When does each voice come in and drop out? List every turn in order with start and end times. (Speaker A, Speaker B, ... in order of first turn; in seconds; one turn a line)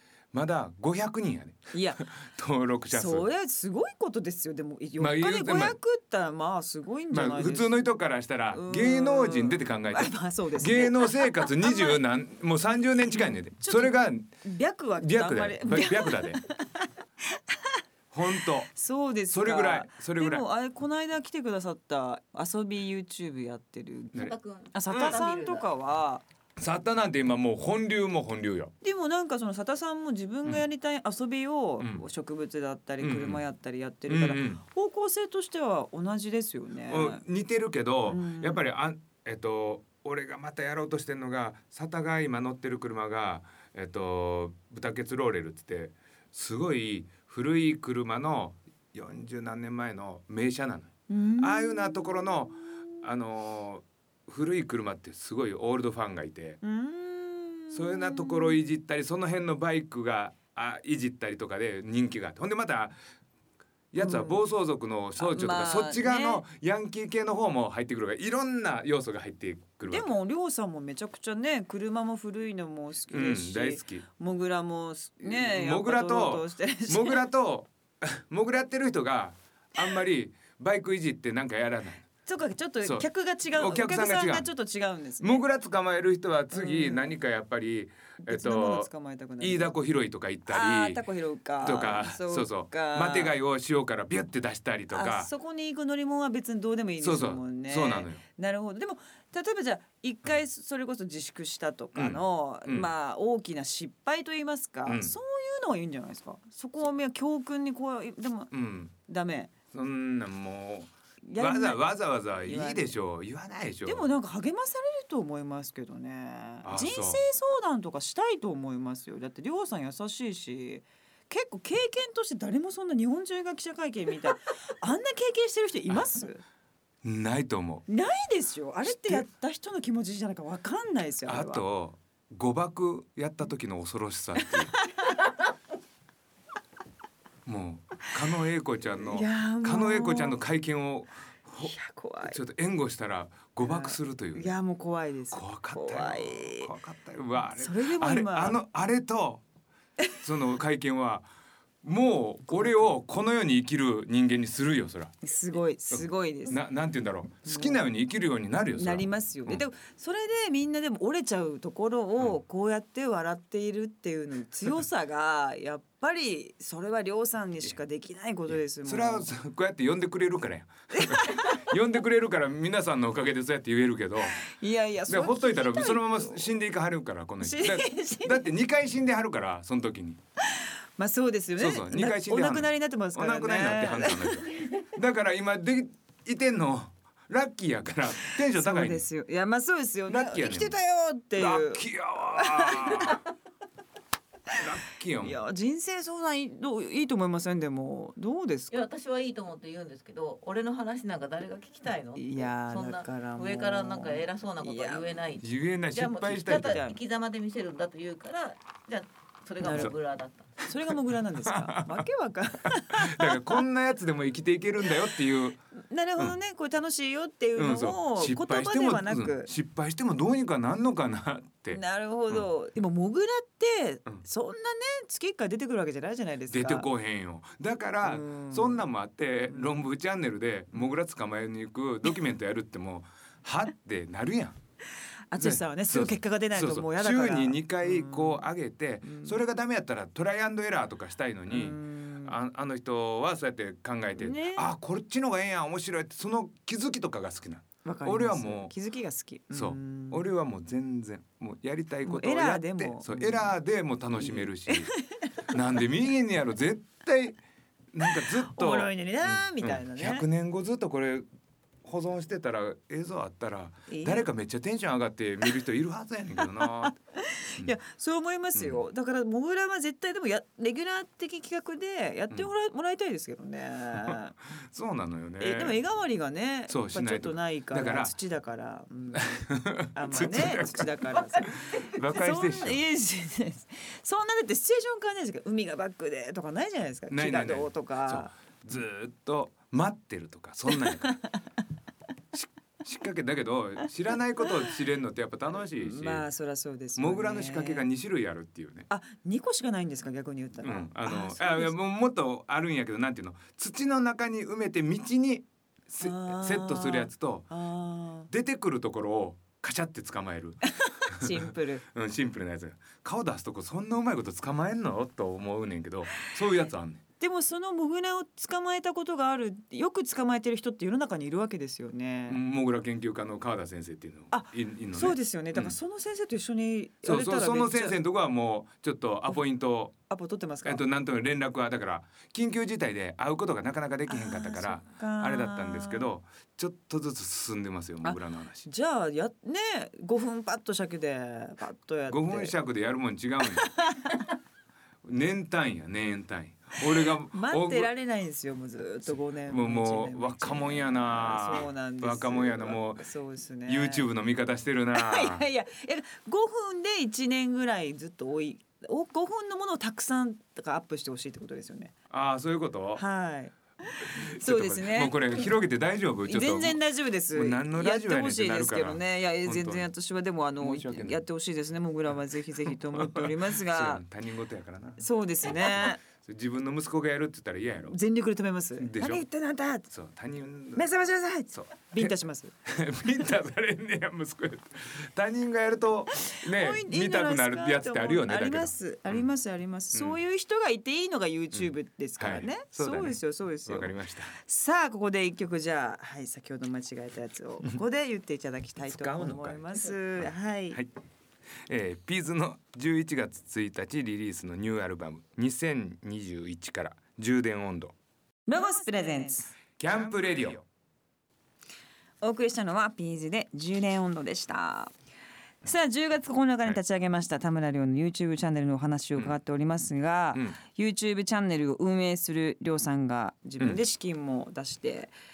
Speaker A: 0.3-3.3
Speaker B: 1.7-2.0
Speaker B: 2.9-7.7
Speaker A: 5.0-5.8
Speaker A: 7.1-14.3
Speaker B: 8.5-12.0
Speaker B: 13.1-17.8
Speaker A: 15.0-16.4
Speaker A: 18.1-18.7
Speaker B: 18.4-26.2
Speaker A: 19.3-20.4
Speaker C: 24.1-25.6
Speaker A: 24.9-25.2
Speaker A: 26.6-28.7
Speaker B: 28.8-37.2
Speaker A: 33.0-33.4
Speaker A: 34.1-34.6
Speaker A: 36.9-56.6
Speaker B: 38.0-38.6
Speaker B: 51.1-52.8
Speaker B: 56.6-58.6
Speaker A: 57.7-63.0
Speaker A: 63.9-70.1
Speaker B: 64.0-64.4
Speaker B: 65.2-66.4
Speaker B: 69.8-77.2
Speaker A: 73.1-74.0
Speaker A: 75.2-82.1
Speaker B: 82.2-85.4
Speaker A: 82.8-84.5
Speaker A: 85.2-91.0
Speaker B: 86.5-87.1
Speaker B: 88.2-89.7
Speaker B: 90.5-93.3
Speaker A: 91.6-95.3
Speaker B: 94.9-108.5
Speaker A: 97.0-98.2
Speaker A: 101.9-102.9
Speaker A: 104.8-105.1
Speaker A: 108.5-108.9
Speaker B: 109.1-109.5
Speaker A: 109.7-114.1
Speaker B: 111.2-111.8
Speaker B: 112.4-112.8
Speaker B: 113.8-126.4
Speaker A: 116.6-117.2
Speaker A: 127.0-127.9
Speaker B: 127.9-131.6
Speaker A: 128.8-129.2
Speaker A: 131.2-134.7
Speaker B: 134.5-135.1
Speaker A: 137.4-144.5
Speaker B: 139.0-140.4
Speaker B: 141.6-142.4
Speaker B: 143.6-146.7
Speaker A: 145.3-149.4
Speaker B: 147.6-148.6
Speaker A: 150.2-151.3
Speaker A: 151.8-155.1
Speaker B: 155.2-156.6
Speaker A: 155.9-159.6
Speaker B: 157.4-157.8
Speaker B: 158.7-169.3
Speaker A: 168.5-174.4
Speaker B: 170.9-171.6
Speaker B: 174.3-176.5
Speaker A: 175.1-180.2
Speaker B: 177.4-178.5
Speaker B: 180.4-184.6
Speaker A: 181.6-189.0
Speaker B: 188.5-193.2
Speaker A: 190.1-190.8
Speaker A: 191.3-193.2
Speaker A: 194.5-195.4
Speaker B: 195.2-198.8
Speaker C: 198.7-210.6
Speaker B: 202.2-205.2
Speaker A: 205.4-206.8
Speaker B: 206.5-207.0
Speaker B: 209.6-209.9
Speaker B: 210.6-213.6
Speaker A: 211.4-212.0
Speaker A: 212.7-215.6
Speaker B: 215.8-219.5
Speaker A: 217.6-222.4
Speaker B: 221.7-226.9
Speaker A: 226.5-234.6
Speaker B: 228.0-228.8
Speaker B: 229.5-229.8
Speaker B: 235.3-238.4
Speaker A: 235.4-248.7
Speaker B: 239.0-239.4
Speaker B: 241.5-242.3
Speaker B: 244.2-244.7
Speaker B: 247.8-250.2
Speaker A: 249.5-254.9
Speaker B: 252.0-253.5
Speaker B: 254.2-255.5
Speaker A: 255.5-257.4
Speaker A: 257.9-261.2
Speaker B: 258.0-260.3
Speaker A: 261.8-267.0
Speaker B: 263.9-264.3
Speaker B: 266.4-274.4
Speaker A: 268.5-268.8
Speaker A: 274.0-275.8
Speaker B: 275.4-288.3
Speaker A: 276.7-278.1
Speaker A: 279.1-282.8
Speaker A: 287.1-291.2
Speaker B: 290.7-291.4
Speaker A: 292.3-296.2
Speaker B: 295.8-297.9
Speaker A: 296.9-298.9
Speaker B: 298.9-301.7
Speaker A: 300.6-307.5
Speaker B: 306.0-308.3
Speaker A: 308.3-317.0
Speaker B: 310.8-311.8
Speaker B: 317.2-322.4
Speaker A: 322.3-325.8
Speaker B: 324.3-328.0
Speaker A: 327.0-329.9
Speaker B: 330.1-330.8
Speaker A: 330.6-338.7
Speaker B: 334.1-336.1
Speaker B: 338.0-342.5
Speaker A: 342.1-343.7
Speaker B: 343.4-344.3
Speaker A: 345.0-347.9
Speaker B: 347.3-354.1
Speaker A: 349.1-353.1
Speaker A: 353.6-355.4
Speaker B: 354.9-361.9
Speaker A: 362.1-363.0
Speaker B: 362.9-365.4
Speaker A: 364.0-366.8
Speaker B: 366.2-374.0
Speaker A: 367.3-369.9
Speaker A: 370.6-371.2
Speaker A: 372.7-378.0
Speaker B: 375.0-376.0
Speaker B: 377.8-379.9
Speaker A: 378.8-379.2
Speaker A: 379.9-380.9
Speaker B: 380.7-382.5
Speaker A: 381.5-389.3
Speaker B: 386.2-400.8
Speaker A: 389.9-390.2
Speaker A: 391.5-394.4
Speaker A: 398.8-400.9
Speaker A: 401.6-407.9
Speaker B: 408.5-409.5
Speaker A: 409.8-410.6
Speaker B: 412.2-414.9
Speaker B: 415.6-425.1